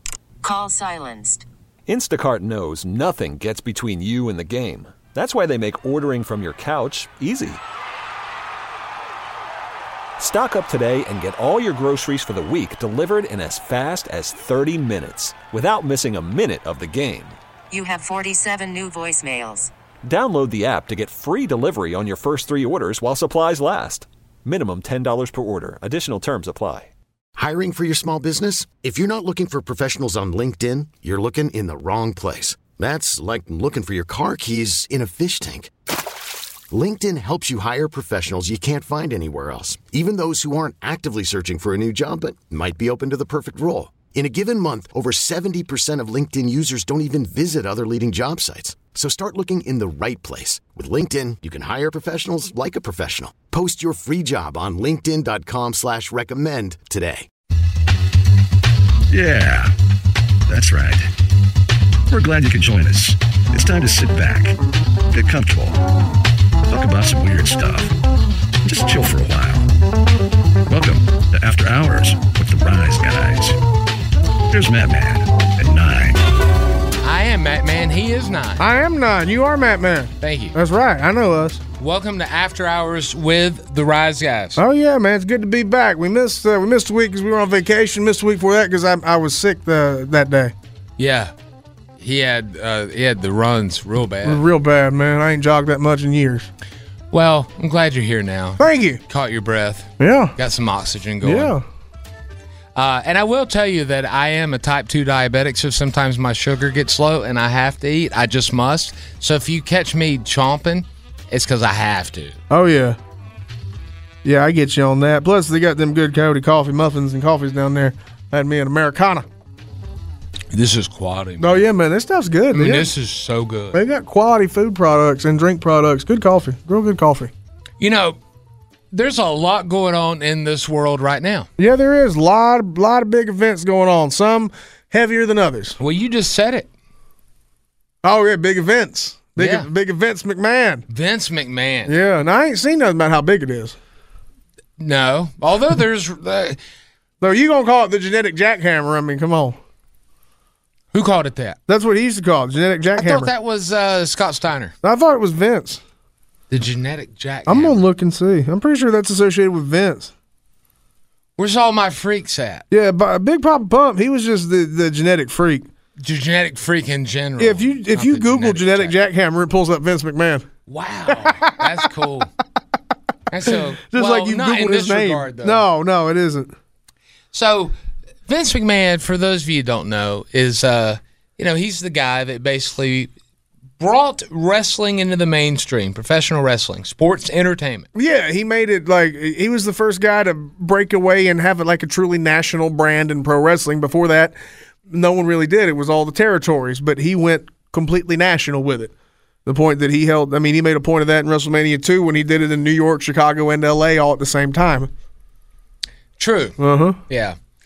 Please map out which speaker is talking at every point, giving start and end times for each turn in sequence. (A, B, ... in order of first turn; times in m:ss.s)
0:00.4-0:01.4 A
0:01.9-0:07.6 B
0:10.2-0:17.4 B
0:17.7-0:19.7 A
0:20.0-0:26.9 B
0:27.4-0:35.7 C
0:36.7-0:57.3 C
0:59.1-0:59.7 D
1:00.5-1:01.1 D
1:02.1-1:04.6 D
1:05.1-1:05.8 D
1:06.7-1:07.9 D
1:08.6-1:09.7 D
1:10.6-1:13.6 D
1:14.5-1:16.2 D
1:17.0-1:18.6 E
1:18.6-1:21.6 F
1:20.2-1:20.6 E
1:21.8-1:24.6 E
1:24.6-1:30.5 F
1:31.0-1:31.3 E
1:32.0-1:34.4 E
1:34.2-1:36.5 F
1:37.1-1:41.5 E
1:38.6-1:39.0 F
1:40.0-1:40.3 F
1:41.2-1:41.6 F
1:42.7-1:52.4 E
1:52.5-1:53.0 F
1:54.2-1:59.2 F
2:00.5-2:01.6 E
2:01.4-2:02.9 F
2:02.5-2:03.8 E
2:03.7-2:07.3 F
2:07.8-2:08.2 E
2:08.9-2:11.5 E
2:11.6-2:15.8 F
2:15.8-2:16.7 E
2:18.0-2:20.8 F
2:19.4-2:19.7 E
2:20.9-2:21.9 E
2:21.8-2:23.8 F
2:24.8-2:26.6 E
2:27.2-2:29.6 F
2:30.9-2:31.6 E
2:31.7-2:33.3 F
2:33.0-2:34.7 E
2:34.8-2:35.8 F
2:36.5-2:37.9 E
2:37.4-2:40.1 F
2:41.4-2:42.6 E
2:42.7-2:45.7 F
2:46.0-2:49.0 E
2:47.4-2:50.5 F
2:50.7-2:52.3 E
2:51.1-2:51.9 F
2:53.3-2:55.6 E
2:53.4-2:56.5 F
2:57.3-2:57.7 E
2:58.3-3:03.1 E
3:03.8-3:07.9 E
3:07.9-3:14.4 F
3:14.9-3:18.9 F
3:19.4-3:24.9 F
3:26.2-3:27.4 E
3:26.6-3:27.0 F